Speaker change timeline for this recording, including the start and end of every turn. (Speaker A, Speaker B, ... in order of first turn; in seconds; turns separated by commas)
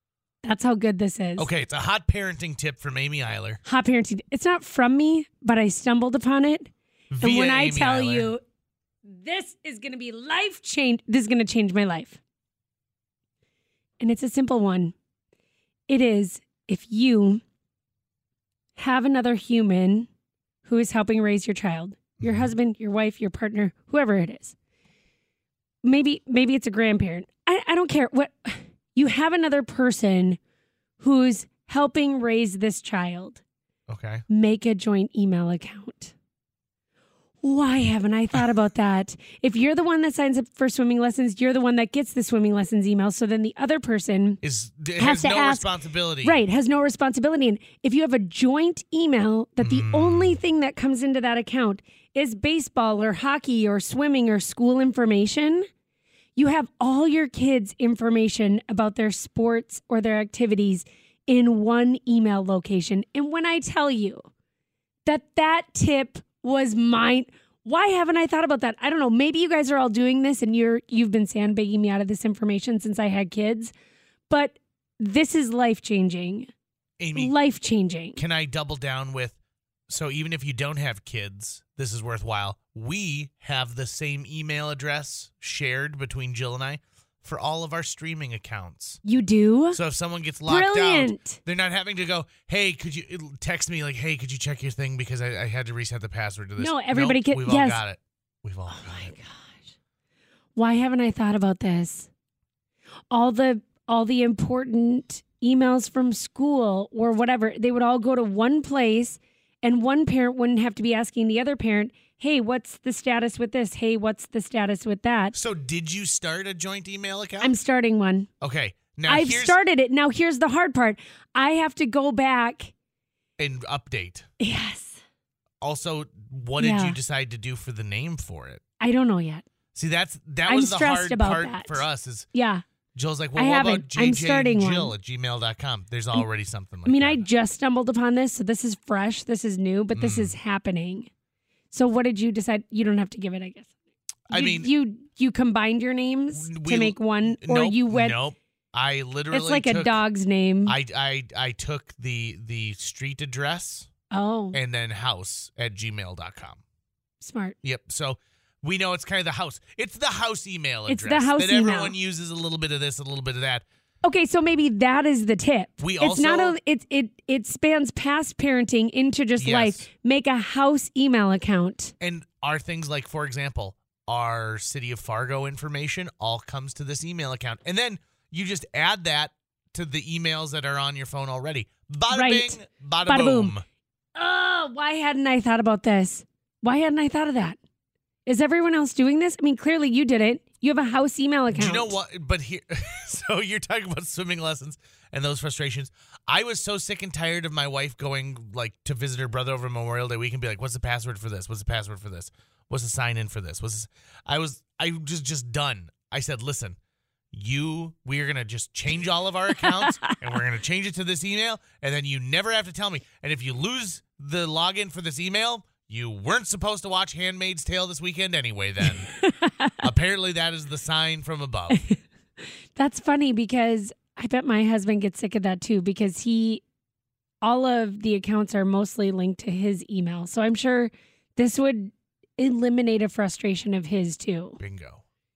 Speaker A: 0.4-1.5, Speaker B: 1.4-3.6, Speaker A: 3.6-8.4, Speaker B: 7.1-8.3, Speaker A: 9.1-12.2, Speaker A: 14.0-14.9, Speaker A: 15.9-17.4, Speaker A: 18.8-20.1, Speaker A: 20.6-24.6, Speaker B: 22.2-22.5, Speaker A: 25.8-30.4, Speaker A: 31.0-33.4, Speaker B: 33.9-34.2, Speaker A: 34.3-36.1, Speaker A: 37.4-44.4, Speaker B: 44.4-46.4, Speaker A: 45.0-45.7, Speaker A: 46.2-55.7, Speaker B: 49.6-50.4, Speaker A: 56.4-64.3, Speaker A: 65.0-73.7, Speaker A: 74.3-76.5, Speaker B: 77.0-77.3, Speaker A: 77.1-78.2, Speaker B: 78.2-79.4, Speaker B: 79.9-89.0, Speaker A: 89.0-89.8, Speaker B: 89.7-99.1, Speaker A: 90.5-91.4, Speaker A: 96.6-97.8, Speaker A: 98.7-99.7, Speaker A: 100.5-102.1, Speaker A: 103.1-115.3, Speaker B: 115.3-117.5, Speaker A: 117.4-118.3, Speaker B: 118.4-119.6, Speaker A: 119.1-122.7, Speaker B: 123.4-124.2, Speaker A: 124.4-125.0, Speaker B: 125.6-128.6, Speaker A: 126.6-127.0, Speaker A: 128.8-129.4, Speaker B: 129.7-132.3, Speaker A: 130.5-132.6, Speaker B: 132.9-137.2, Speaker A: 133.3-134.9, Speaker A: 136.8-141.1, Speaker B: 139.9-140.3, Speaker A: 141.7-143.7, Speaker B: 144.3-144.7, Speaker A: 144.3-148.2, Speaker B: 146.3-150.0, Speaker A: 149.3-150.8, Speaker B: 150.7-153.9, Speaker A: 154.1-154.6, Speaker B: 154.5-156.6, Speaker A: 157.2-157.6, Speaker B: 157.6-163.6, Speaker A: 160.9-161.9, Speaker A: 164.0-171.9, Speaker B: 165.8-166.6, Speaker B: 169.4-169.8, Speaker B: 172.0-183.6, Speaker A: 182.1-183.5, Speaker A: 184.2-187.6, Speaker A: 188.2-192.0, Speaker B: 191.5-206.8, Speaker B: 207.3-219.1, Speaker A: 209.5-210.2, Speaker A: 218.8-219.8, Speaker B: 219.8-221.8, Speaker A: 222.8-226.6, Speaker A: 227.4-234.6, Speaker B: 234.6-235.0